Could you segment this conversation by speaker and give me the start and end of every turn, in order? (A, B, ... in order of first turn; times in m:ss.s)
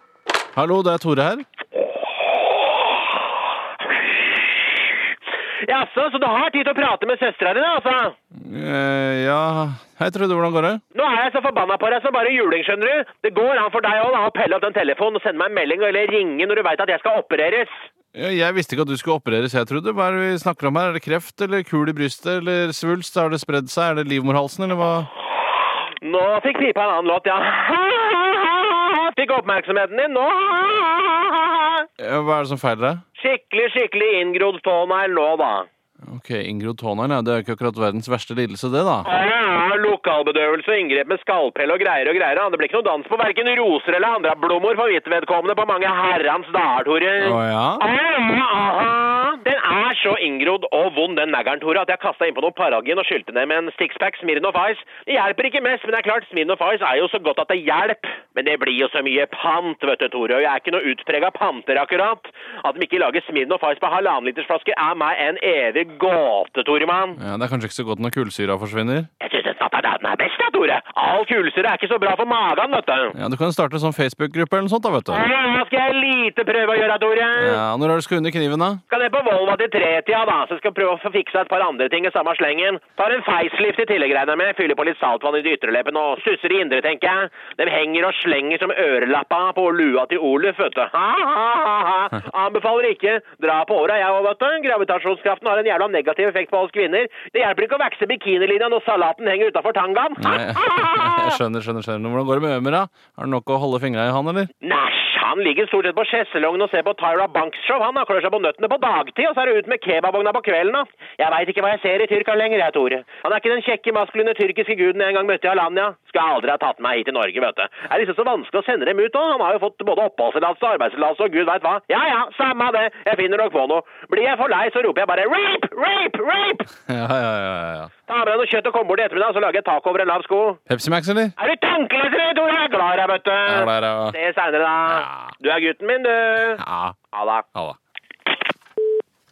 0:00.6-0:01.4 A
0:02.3-0:03.0 B
0:03.9-0:04.9 B
0:05.6-0:08.1 B
0:08.3-0:10.8 A
0:10.9-0:17.8 B
0:18.1-0:25.1 A
0:26.0-0:31.9 B
0:32.0-0:33.0 A
0:33.2-0:35.7 B
0:36.1-0:39.1 A
0:39.0-1:07.2 B
0:47.2-0:47.8 A
1:07.2-1:09.1 A
1:09.2-1:13.1 B
1:13.1-1:15.3 A
1:15.1-1:17.6 B
1:17.4-1:18.8 A
1:18.9-1:41.3 B
1:40.2-1:44.5 A
1:44.6-2:06.7 B
2:06.8-2:07.9 A
2:08.1-2:10.6 B
2:10.7-2:11.3 A
2:11.4-2:17.5 B
2:13.5-2:14.1 A
2:14.9-2:15.3 A
2:16.6-2:16.9 A